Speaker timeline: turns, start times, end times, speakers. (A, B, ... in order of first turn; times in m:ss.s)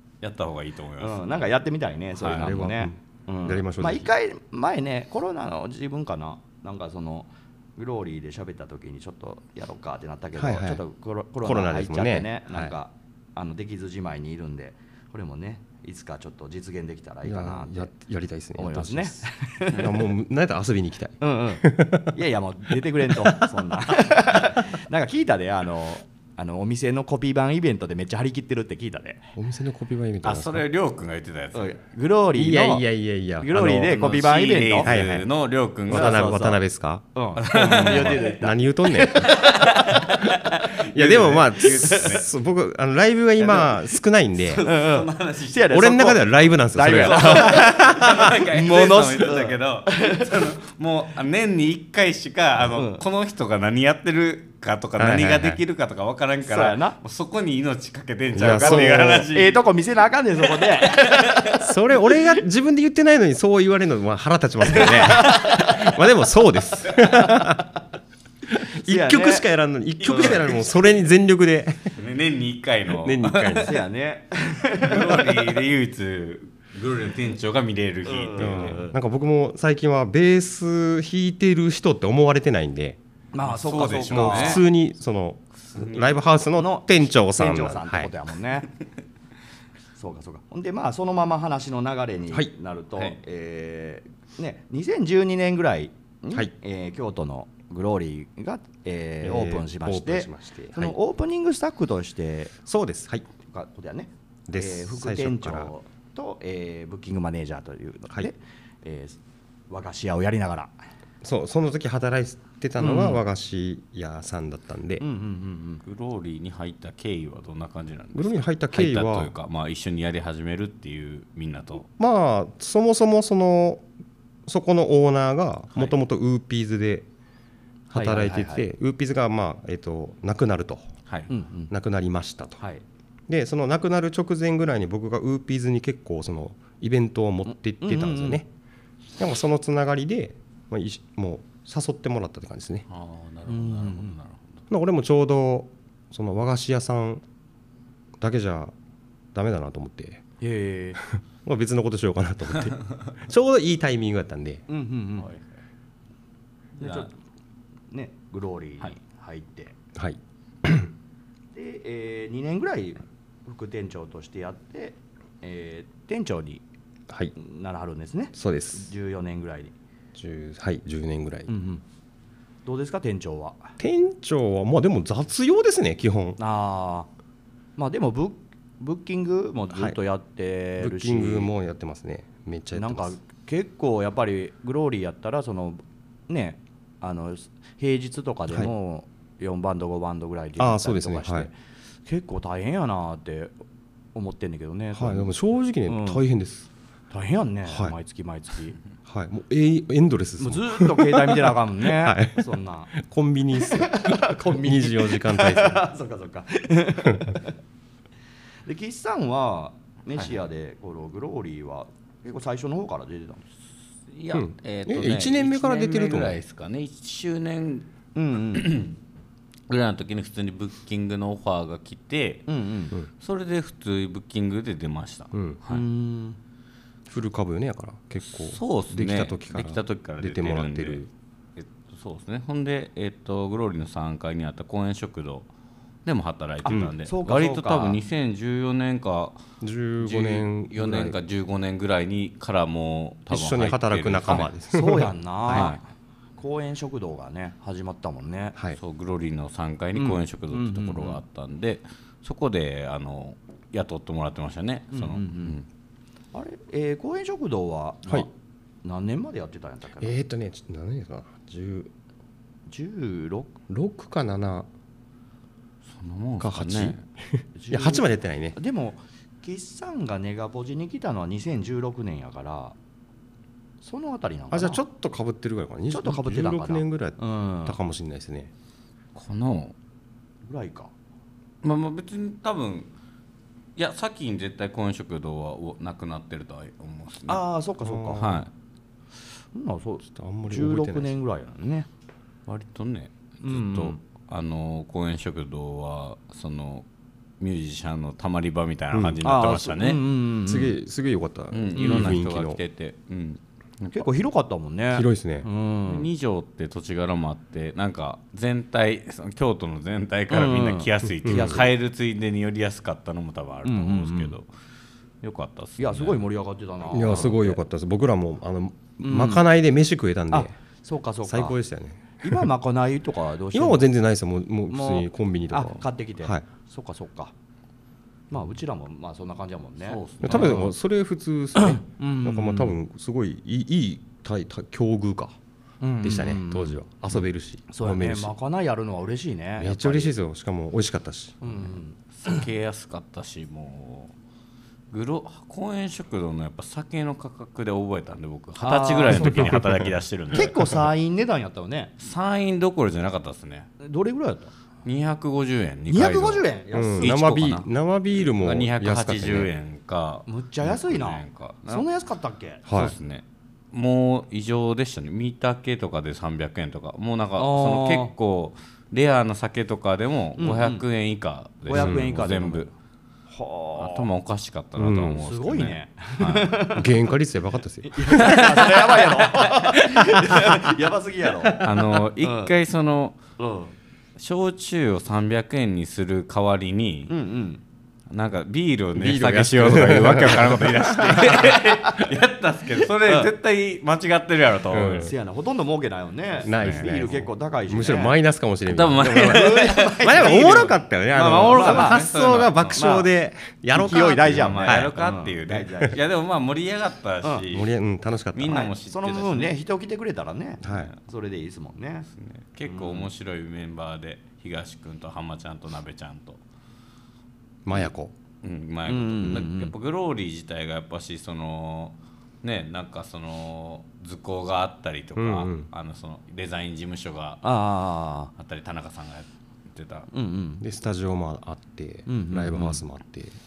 0:00.2-0:01.4 A
0:01.0-0:17.9 B
0:02.1-0:02.6 A
0:02.3-0:04.1 C
0:10.4-0:10.8 C
0:11.4-0:12.7 C
0:17.2-0:22.1 C
0:18.6-0:20.0 B
0:21.2-0:29.3 B
0:23.0-0:23.5 C
0:29.3-0:30.6 C
0:30.2-0:31.8 A
0:31.5-0:32.8 B
0:32.4-0:34.0 C
0:33.4-0:35.0 B
0:33.9-0:36.3 A
0:34.8-0:35.3 C
0:35.9-0:39.3 C
0:35.9-0:36.6 B
0:37.1-0:40.6 B
0:37.4-0:38.4 A
0:39.2-0:42.2 A
0:40.9-0:44.6 C
0:41.6-0:42.2 B
0:43.4-0:43.8 A
0:44.4-0:45.8 A
0:44.6-0:50.5 B
0:45.7-0:48.4 C
0:46.9-0:59.6 A
0:52.6-0:53.0 B
0:55.0-0:55.6 C
0:56.4-0:57.0 B
0:58.3-0:59.3 C
0:58.4-1:02.4 B
1:00.5-1:01.4 A
1:01.5-1:07.7 C
1:04.6-1:05.9 B
1:07.1-1:07.6 B
1:08.5-1:11.9 C
1:08.8-1:09.4 B
1:10.0-1:10.5 B
1:10.0-1:10.5 A
1:12.0-1:13.8 A
1:12.9-1:13.8 C
1:13.6-1:15.6 B
1:14.8-1:18.8 A
1:18.0-1:18.9 B
1:18.4-1:23.0 C
1:23.3-1:24.6 B
1:23.4-1:24.6 A
1:24.1-1:28.1 C
1:25.7-1:26.2 A
1:26.6-1:28.7 B
1:30.0-1:42.5 B
1:39.2-1:41.0 C
1:42.6-1:43.2 C
1:43.5-1:49.2 B
1:44.5-1:45.7 C
1:49.7-1:50.7 B
1:51.2-1:55.0 C
1:52.8-1:53.2 B
1:55.0-1:55.8 B
1:55.8-2:01.8 A
1:58.1-1:59.3 C
2:01.9-2:03.8 C
2:04.4-2:07.1 C
2:07.9-2:10.9 C
2:07.9-2:08.7 B
2:11.3-2:11.7 B
2:11.7-2:12.6 C
2:13.3-2:18.4 C
2:17.4-2:18.4 B
2:19.2-2:22.8 C
2:22.9-2:24.6 A
2:23.5-2:24.2 B
2:24.7-2:27.2 C
2:28.2-2:28.7 C
2:29.3-2:30.2 C
2:30.4-2:31.0 B
2:31.1-2:34.6 C
2:34.7-2:35.3 B
2:35.2-2:35.5 A
2:36.8-2:37.1 B
2:36.8-2:37.1 A
2:37.9-2:39.7 B
2:39.9-2:40.9 C
2:41.5-2:46.6 B
2:47.3-2:49.7 B
2:48.3-2:48.9 C
2:50.1-2:51.5 C
2:51.5-2:51.8 B
2:52.6-2:53.8 B
2:53.8-2:56.4 C
2:56.4-2:57.1 B
2:57.8-3:01.5 B
3:00.8-3:03.2 C
3:02.7-3:11.5 B
3:10.6-3:11.5 C
3:12.0-3:13.5 B
3:14.1-3:15.3 B
3:14.9-3:16.7 C
3:15.8-3:16.2 B
3:17.1-3:18.8 B
3:17.7-3:17.9 C
3:19.0-3:25.9 C
3:20.4-3:22.9 B
3:23.6-3:27.5 B
3:27.0-3:27.3 C
3:28.6-3:33.4 B
3:34.1-3:37.9 A
3:34.3-3:36.4 C
3:38.1-3:38.7 B
3:38.5-3:39.0 A
3:39.7-3:42.5 A
3:42.5-3:43.0 B
3:43.1-3:45.8 A
3:45.3-3:45.6 C
3:45.7-3:46.4 B
3:47.1-3:51.1 C
3:48.2-3:51.0 A
3:51.6-3:55.5 A
3:56.0-3:59.4 A
3:56.6-3:58.0 B
3:59.6-4:01.2 C
4:00.0-4:04.5 A
4:03.3-4:05.8 C
4:04.3-4:05.8 B
4:05.5-4:05.8 A
4:06.4-4:08.6 B
4:08.7-4:15.6 A
4:09.9-4:11.2 B
4:14.9-4:15.6 B
4:16.3-4:18.3 B
4:18.8-4:20.2 B
4:20.0-4:21.9 C
4:22.7-4:23.5 B
4:23.7-4:24.7 C
4:25.8-4:27.0 A
4:26.4-4:28.6 C
4:27.6-4:32.7 B
4:33.8-4:34.8 B
4:34.5-4:38.5 C
4:35.9-4:37.8 B
4:39.1-4:39.7 A
4:40.4-4:40.9 B
4:41.6-4:42.9 A
4:43.8-4:47.4 A
4:47.3-4:48.4 B
4:47.8-4:48.4 C
4:48.2-4:48.5 A
4:49.5-4:51.9 B
4:50.1-4:51.1 C
4:52.5-4:56.8 A
4:53.4-4:54.0 B
4:57.4-5:00.0 A
4:58.9-4:59.2 C
4:59.2-5:00.8 B
5:00.4-5:02.6 C
5:01.5-5:04.0 A
5:01.7-5:02.2 B
5:03.9-5:06.1 B
5:04.9-5:05.5 C
5:05.8-5:14.5 A
5:10.3-5:11.7 B
5:11.2-5:11.6 C
5:13.6-5:14.3 B
5:15.2-5:16.3 A
5:15.8-5:17.6 B
5:16.9-5:20.5 C
5:16.9-5:17.4 A
5:19.0-5:19.4 B
5:20.3-5:21.6 B
5:21.2-5:22.5 C
5:22.2-5:23.9 B
5:23.5-5:26.4 C
5:24.7-5:27.3 B
5:28.3-5:30.7 B
5:29.8-5:30.7 A
5:30.2-5:35.4 C
5:31.6-5:32.7 B
5:35.8-5:36.8 B
5:36.0-5:38.3 C
5:37.7-5:40.1 B
5:39.6-5:41.5 C
5:41.4-5:42.4 B
5:42.1-5:44.1 A
5:44.9-5:50.8 A
5:48.6-5:49.6 B
5:49.3-5:49.7 C
5:50.3-5:51.9 B
5:52.0-5:53.7 A
5:53.8-5:54.5 B
5:54.8-5:56.5 A
5:55.9-5:57.1 B
5:56.7-5:59.5 C
5:57.0-6:01.8 A
6:00.3-6:02.6 B
6:02.7-6:02.9 C
6:02.7-6:12.7 A
6:07.4-6:08.1 B
6:10.4-6:10.8 B
6:11.6-6:12.7 B
6:11.7-6:12.1 C
6:13.3-6:14.1 B
6:13.8-6:16.6 A
6:14.8-6:15.2 C
6:14.8-6:16.9 B
6:16.7-6:18.5 C
6:17.8-6:21.6 B
6:18.2-6:18.9 A
6:20.0-6:20.2 C
6:21.4-6:22.0 C
6:21.6-6:23.2 A
6:22.2-6:22.5 B
6:23.4-6:23.7 B
6:24.2-6:27.1 A
6:27.1-6:27.6 B
6:28.1-6:35.1 A
6:28.9-6:31.5 C
6:31.2-6:32.0 B
6:32.8-6:33.3 B
6:34.7-6:35.1 C
6:35.0-6:38.1 B
6:36.4-6:44.9 C
6:36.5-6:37.1 A
6:38.7-6:42.8 A
6:39.1-6:42.0 B
6:42.7-6:43.1 B
6:43.7-6:46.0 B
6:44.0-6:47.7 A
6:47.5-6:48.7 C
6:48.3-6:49.6 A
6:48.5-6:52.1 B
6:50.6-6:50.9 C
6:50.6-6:50.9 A
6:52.1-6:56.4 A
6:52.6-6:53.1 B
6:57.6-6:58.1 C
6:58.4-7:07.4 A
6:58.9-6:59.7 B
7:05.2-7:05.7 C
7:07.4-7:08.3 B
7:08.4-7:10.1 A
7:10.1-7:10.6 B
7:10.6-7:13.4 C
7:12.0-7:12.8 B